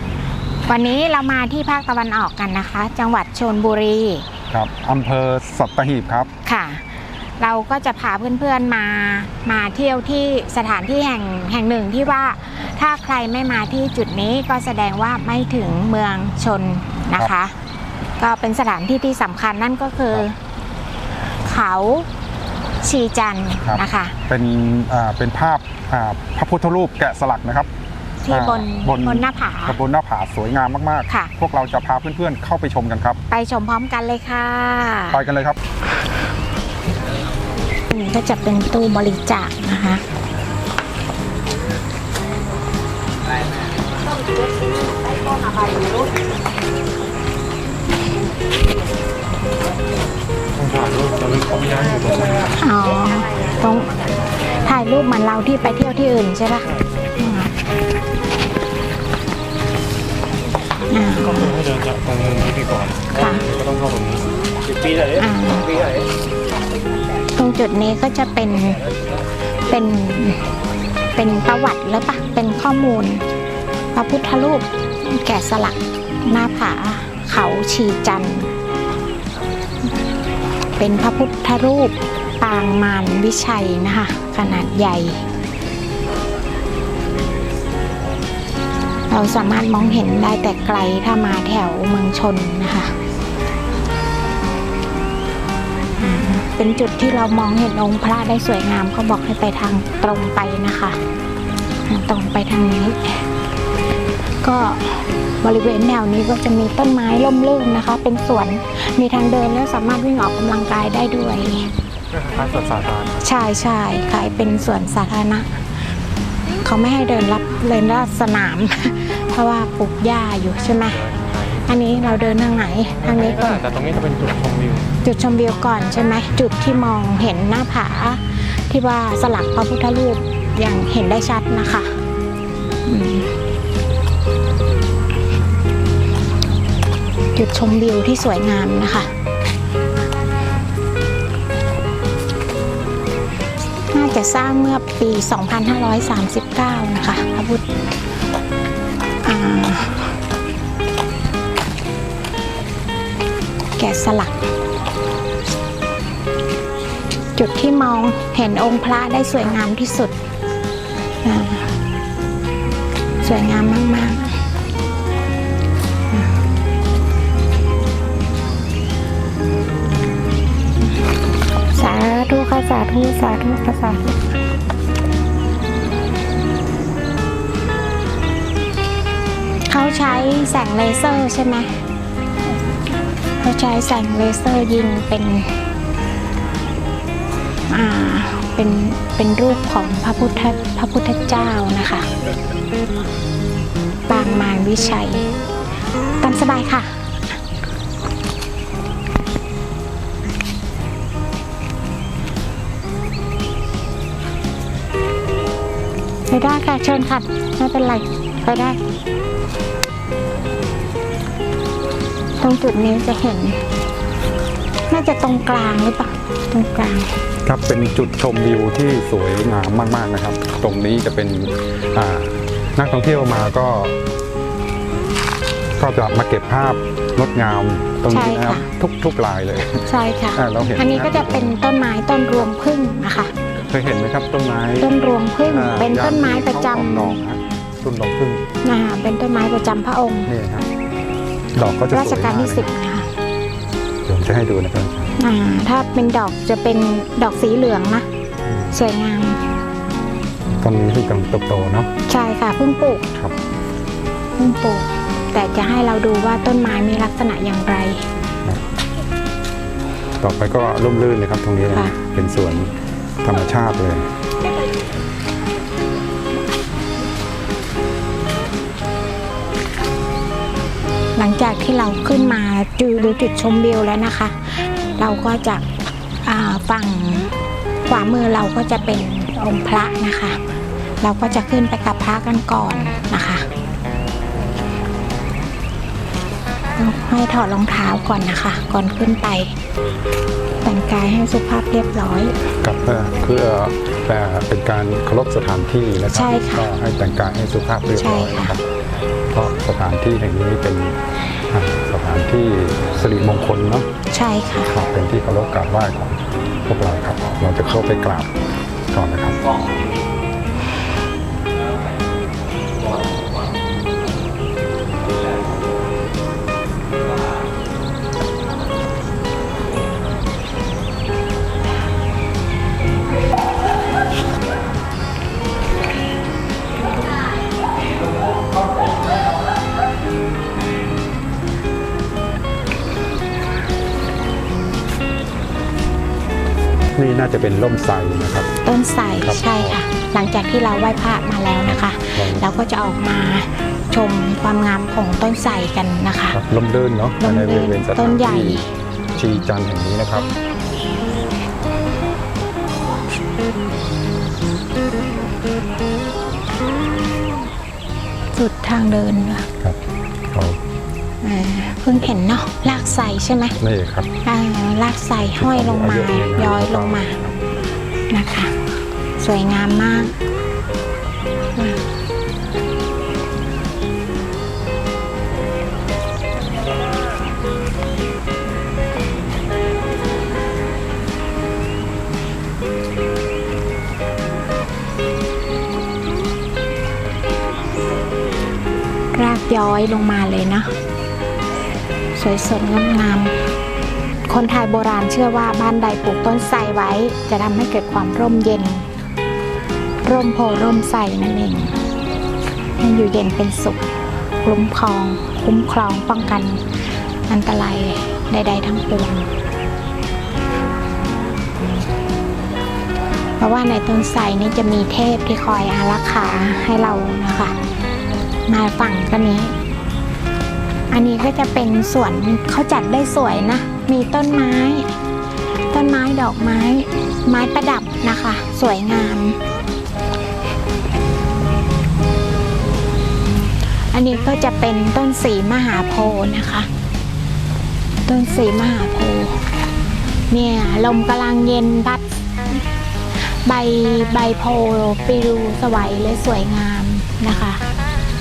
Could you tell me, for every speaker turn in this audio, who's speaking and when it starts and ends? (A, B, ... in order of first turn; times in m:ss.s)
0:00.7-0:04.3 A
0:04.5-0:06.3 B
0:06.4-0:17.6 A
0:18.2-0:20.4 A
0:21.3-0:22.1 A
0:22.8-0:24.2 A
0:23.6-0:27.7 B
0:28.2-0:29.8 A
0:28.3-0:33.2 B
0:33.3-0:35.2 A
0:35.1-0:35.6 B
0:37.9-0:40.0 A
0:50.6-0:52.5 C
0:52.6-0:53.9 A
0:54.5-0:57.5 A
1:00.9-1:01.7 A
1:01.4-1:04.3 C
1:03.1-1:03.4 A
1:05.1-1:05.8 A
1:07.3-1:08.9 A
1:09.7-1:10.4 A
1:11.1-1:13.2 A
1:14.0-1:18.5 A
1:20.8-1:25.3 A
1:29.1-1:32.9 A
1:36.0-1:41.0 A
1:41.9-1:43.2 A
1:44.4-1:51.7 A
1:52.1-1:53.2 C
1:53.2-1:55.5 A
1:56.6-2:01.0 A
2:01.0-2:01.6 C
2:01.6-2:03.6 A
2:03.2-2:04.9 C
2:05.0-2:12.0 A
2:12.8-2:13.4 A
2:17.4-2:19.1 A
2:23.9-2:27.6 A
2:29.2-2:30.2 A
2:33.8-2:34.5 A
2:37.4-2:40.1 A
2:41.2-2:41.7 A
2:43.2-2:44.4 A
2:51.7-2:54.3 A
2:59.7-3:01.8 A
3:03.4-3:05.6 A
3:07.7-3:12.1 A
3:14.1-3:15.3 A
3:16.2-3:17.4 A
3:26.3-3:28.8 A
3:32.4-3:33.6 A
3:34.9-3:37.1 A
3:37.5-3:44.0 B
3:45.8-3:51.6 B
3:48.1-3:48.7 A
3:49.9-3:53.3 A
3:53.7-3:58.4 B
3:54.8-3:57.2 A
3:58.6-4:00.3 A
4:00.3-4:00.7 B
4:01.6-4:02.7 B
4:01.9-4:03.1 A
4:04.0-4:05.1 B
4:05.2-4:08.1 A
4:08.5-4:08.7 B
4:08.7-4:09.4 A
4:10.6-4:11.9 B
4:12.1-4:13.1 A
4:14.4-4:18.1 A
4:20.2-4:24.1 B
4:31.2-4:35.6 A
4:36.2-4:37.3 A
4:37.9-4:40.4 A
4:41.0-4:43.5 A
4:46.8-4:49.5 A
4:50.6-4:52.5 A
4:52.6-4:58.6 B
4:56.1-4:56.8 A
4:58.0-4:58.6 A
4:59.3-5:01.0 B
5:01.5-5:03.9 B
5:04.1-5:04.7 A
5:04.7-5:08.3 B
5:08.9-5:09.4 B
5:37.0-5:38.5 B
5:38.6-5:46.4 A
5:39.2-5:39.8 B
5:41.7-5:42.5 B
5:46.3-5:50.3 B
5:47.2-5:48.7 A
5:58.3-5:59.5 A
6:00.3-6:00.6 B
6:01.2-6:03.6 A
6:03.6-6:04.1 B
6:04.2-6:07.2 A
6:05.2-6:07.4 B
6:08.1-6:08.6 A
6:09.2-6:10.1 A
6:11.6-6:11.8 A
6:29.1-6:30.7 A
6:32.2-6:33.4 A
6:34.3-6:38.9 A
6:40.0-6:41.8 A
6:42.8-6:43.9 A
6:44.4-6:46.6 A
6:47.3-6:49.3 A
6:53.4-6:57.6 A
6:58.5-6:59.6 A
7:00.9-7:04.9 A
7:05.7-7:09.4 A
7:13.9-7:16.7 A
7:18.1-7:19.5 A
7:20.3-7:22.6 A
7:23.2-7:27.6 A